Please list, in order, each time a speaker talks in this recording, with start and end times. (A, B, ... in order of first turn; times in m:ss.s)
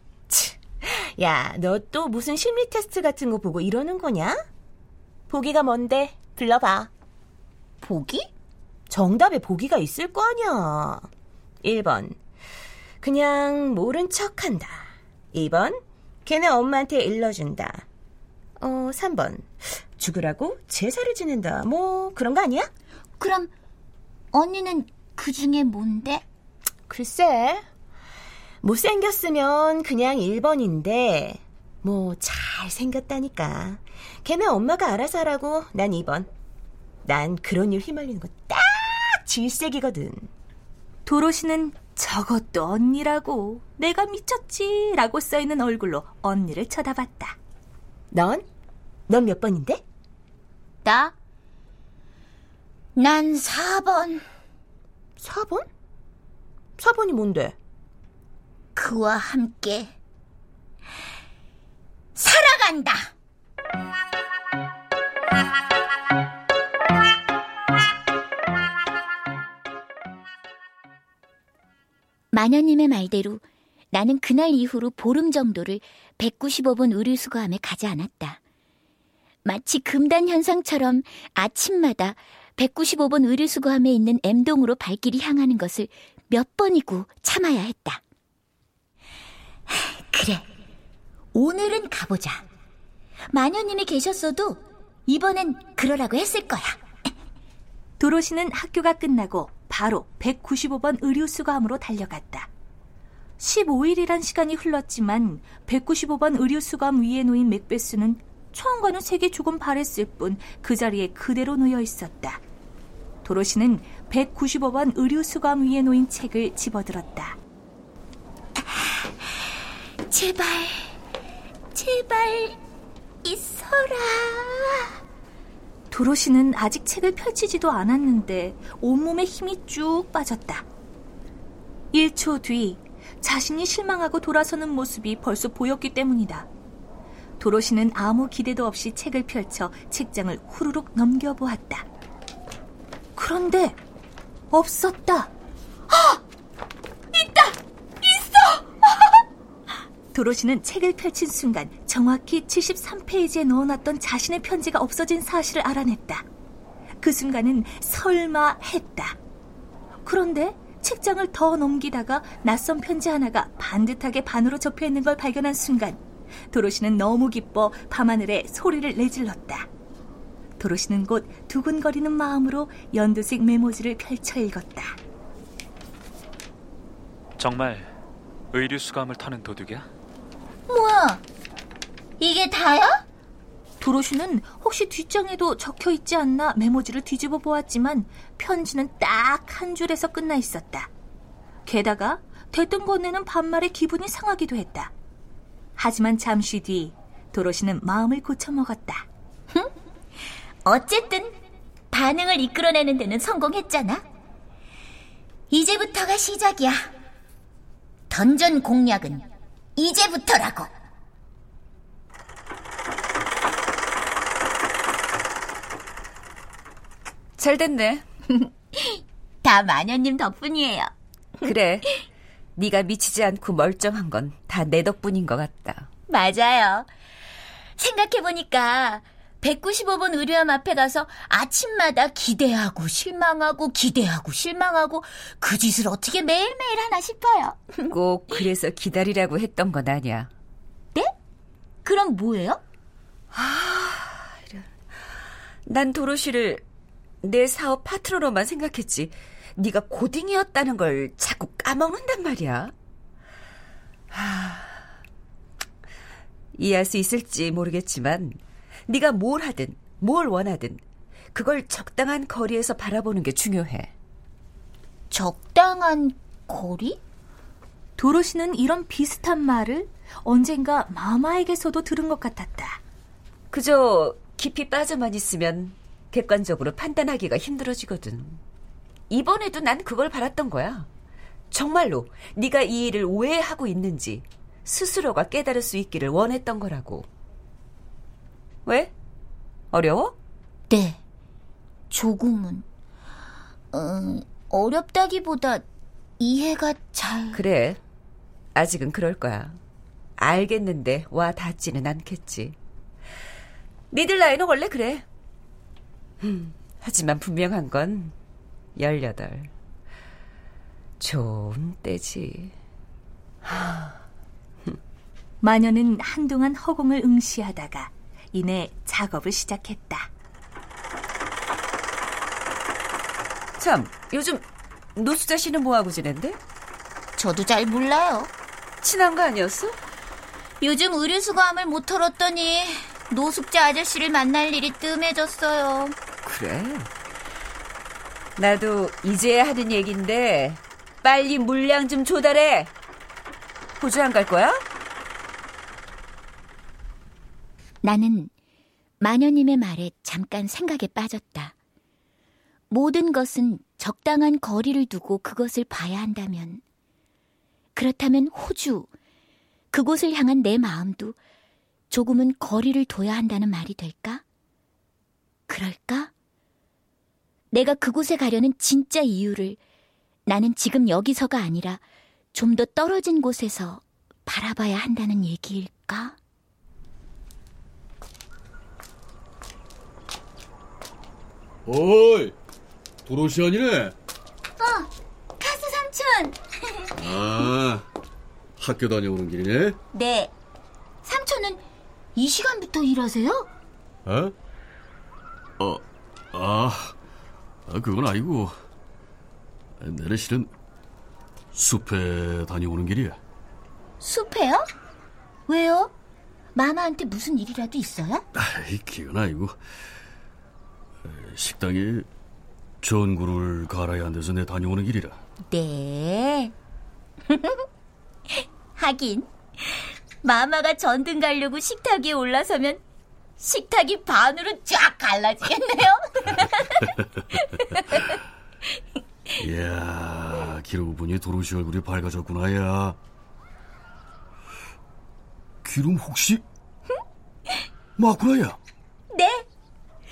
0:00.3-0:04.4 A
0:05.3-0:06.9 A
0:07.8-0:08.3 B
0:08.9-0:11.1 A
0:11.6-0:12.2 A
0:13.0-0:17.8 A
0:18.6-0:22.7 A
0:23.2-0:23.5 B
0:24.3-0:26.2 B
0:26.9-0:27.6 A
0:28.6-0:36.3 A
0:37.0-0:40.3 A
0:41.0-0:47.4 C
0:48.1-0:48.4 A
0:49.1-0:49.8 A
0:50.8-0:51.1 B
0:53.0-0:54.2 B
0:55.2-0:55.6 A
0:56.8-0:57.5 A
0:58.7-1:00.0 B
1:02.1-1:03.1 B
1:12.3-1:18.4 B
1:19.4-1:28.0 B
1:29.7-1:30.5 B
1:31.3-1:32.4 B
1:33.3-1:36.8 B
1:38.0-1:42.5 C
1:43.4-1:52.4 C
1:53.2-1:57.4 C
1:58.8-1:59.1 B
2:00.1-2:01.0 B
2:01.7-2:02.6 B
2:03.2-2:05.0 B
2:05.9-2:10.6 C
2:11.9-2:16.5 C
2:17.4-2:21.8 C
2:23.2-2:23.8 C
2:24.5-2:25.3 C
2:30.1-2:36.2 C
2:37.0-2:39.2 C
2:40.0-2:49.7 C
2:50.6-2:55.0 C
2:57.4-2:57.9 D
2:58.5-2:59.9 D
3:00.7-3:01.2 B
3:02.2-3:03.0 B
3:03.8-3:10.9 C
3:11.6-3:14.9 C
3:15.8-3:19.1 C
3:20.6-3:21.3 B
3:21.9-3:24.0 B
3:25.5-3:26.9 B
3:28.1-3:30.7 B
3:37.4-3:38.0 E
3:38.4-3:40.9 B
3:41.4-3:41.9 E
3:42.6-3:45.9 E
3:46.1-3:46.9 B
3:47.8-3:58.0 B
3:57.9-4:00.3 E
4:01.8-4:02.6 B
4:03.3-4:04.6 E
4:05.6-4:06.6 E
4:07.2-4:12.7 E
4:14.1-4:14.7 E
4:16.5-4:20.8 E
4:21.3-4:23.9 E
4:25.1-4:27.0 B
4:28.0-4:32.8 C
4:33.5-4:38.4 E
4:39.1-4:40.9 E
4:41.5-4:47.1 E
4:48.6-4:48.9 E
4:49.7-4:50.1 E
4:50.7-4:51.0 B
4:51.9-4:52.6 B
4:53.7-4:55.6 B
4:56.2-4:57.4 B
4:57.3-4:57.8 E
4:58.5-4:59.6 E
5:00.2-5:02.5 E
5:03.9-5:05.0 E
5:06.2-5:08.1 E
5:08.8-5:09.5 E
5:11.0-5:12.5 E
5:13.4-5:13.9 E
5:15.4-5:20.1 C
5:23.6-5:24.4 E
5:25.0-5:26.4 E
5:27.2-5:28.3 B
5:28.8-5:29.8 E
5:30.6-5:36.0 B
5:36.2-5:36.9 E
5:38.4-5:42.7 E
5:43.8-5:44.6 E
5:47.8-5:48.3 B
5:49.0-5:51.5 B
5:52.7-5:56.6 B
5:57.7-5:58.9 B
5:59.7-6:01.2 B
6:01.9-6:04.2 B
6:05.5-6:06.1 B
6:07.5-6:09.6 B
6:10.3-6:11.8 B
6:12.3-6:16.2 B
6:21.6-6:22.3 F
6:23.0-6:23.9 F
6:24.6-6:26.9 B
6:27.0-6:27.9 F
6:28.6-6:29.8 F
6:29.9-6:30.3 B
6:31.0-6:31.6 B
6:32.2-6:33.5 B
6:34.0-6:34.3 F
6:35.6-6:36.9 F
6:37.7-6:38.5 F
6:39.8-6:40.5 F
6:41.5-6:43.2 F
6:44.0-6:44.6 B
6:45.5-6:45.9 B
6:46.5-6:48.2 B
6:48.3-6:49.6 F
6:51.0-6:52.1 F
6:52.8-6:55.2 F
6:55.5-6:56.5 B
6:57.3-6:57.6 B
6:58.3-7:02.8 B
7:03.4-7:08.2 B
7:09.4-7:13.0 F
7:15.6-7:16.4 F
7:18.0-7:18.6 F
7:19.1-7:19.4 B